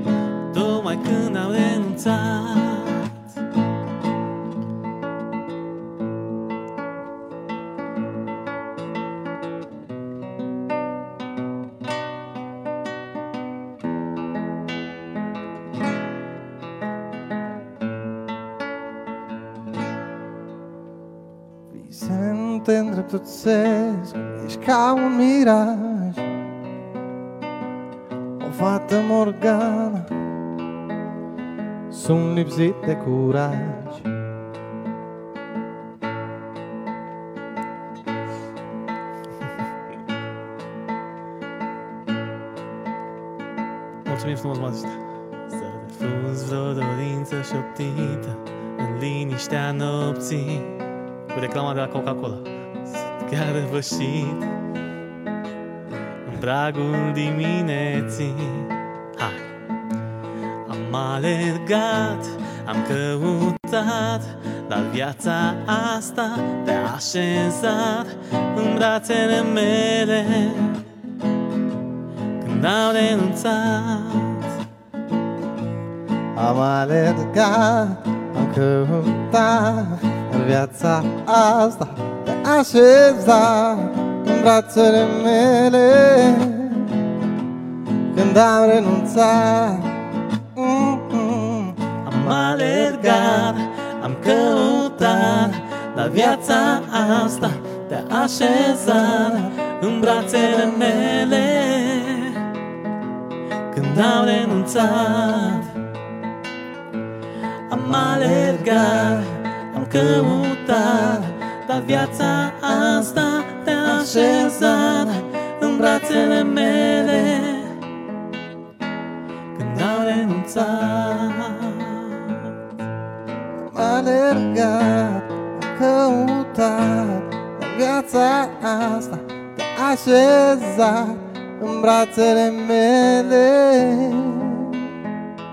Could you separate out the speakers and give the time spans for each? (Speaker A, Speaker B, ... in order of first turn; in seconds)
Speaker A: 0.5-3.2, 44.0-45.0, 45.5-50.8, 51.3-54.5, 56.3-59.4, 60.7-70.8, 72.4-74.5, 92.0-102.4, 103.7-105.7, 107.7-117.8, 119.5-122.4
Speaker B: 21.7-26.3, 28.4-30.1, 31.9-34.1, 76.3-87.1, 88.1-93.6, 94.2-101.5, 103.9-105.7, 107.7-113.3, 113.8-117.4, 123.5-134.9